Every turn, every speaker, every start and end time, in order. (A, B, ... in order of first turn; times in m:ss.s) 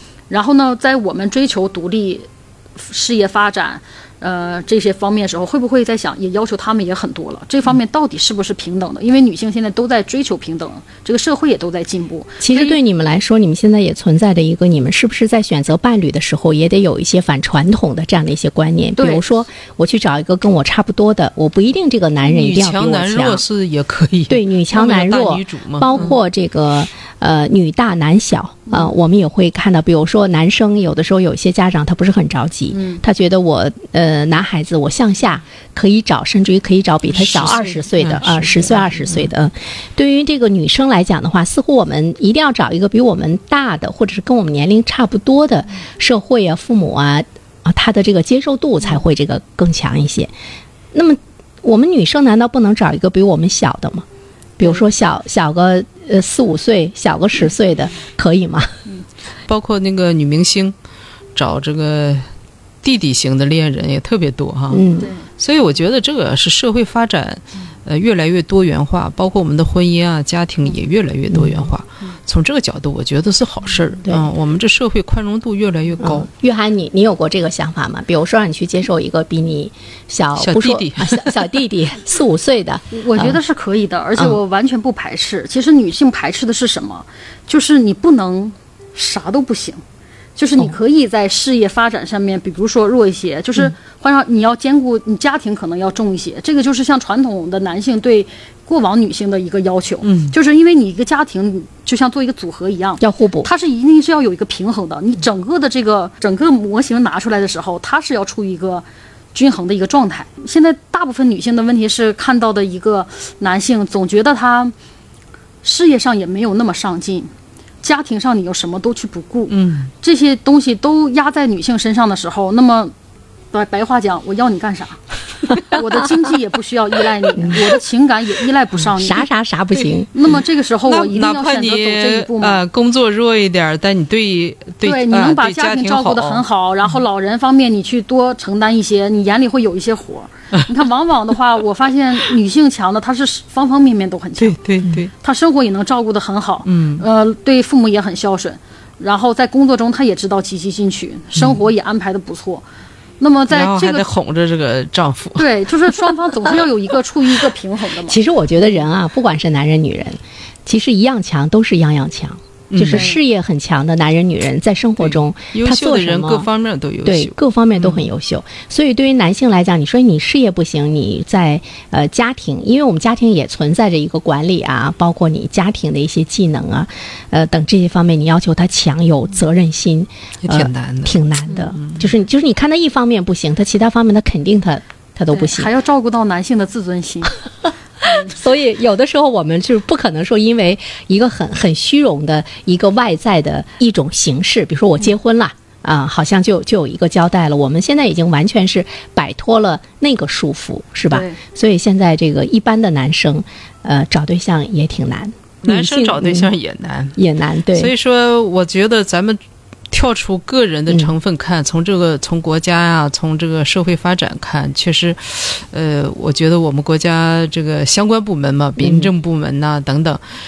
0:00.3-0:12.8 A
0:12.4-0:23.4 B
0:19.0-0:19.2 A
0:22.2-0:26.1 C
0:24.3-0:50.3 B
0:32.7-0:33.0 A
0:37.1-0:39.3 C
0:50.9-0:54.0 B
0:54.6-0:58.7 B
0:59.5-1:00.7 C
1:01.4-1:02.3 C
1:02.8-1:04.8 C
1:04.7-1:05.1 B
1:05.4-1:16.3 C
1:11.3-1:11.7 B
1:16.0-1:23.4 B
1:20.4-1:21.5 C
1:22.9-1:29.8 A
1:30.4-1:54.7 A
1:40.0-1:40.3 C
1:43.0-1:43.5 B
1:55.6-1:57.3 A
1:57.8-2:02.9 A
1:59.5-1:59.9 C
2:03.5-2:05.0 A
2:05.6-2:09.2 A
2:07.4-2:07.7 B
2:08.9-2:10.1 B
2:10.1-2:12.6 A
2:10.9-2:16.4 C
2:14.8-2:24.6 A
2:24.4-2:25.1 C
2:25.2-2:32.6 A
2:26.6-2:27.0 C
2:33.2-2:34.1 A
2:33.5-2:35.7 C
2:35.4-2:38.2 A
2:38.1-2:46.5 B
2:42.7-2:43.1 C
2:42.9-2:43.2 A
2:45.0-2:48.1 C
2:47.0-3:05.7 B
3:00.4-3:01.2 C
3:01.8-3:02.1 C
3:05.3-3:07.4 A
3:08.0-3:26.5 B
3:21.1-3:21.4 A
3:25.6-3:27.2 C
3:27.2-3:27.9 B
3:27.7-3:29.4 C
3:29.9-3:40.2 C
3:38.8-3:39.1 B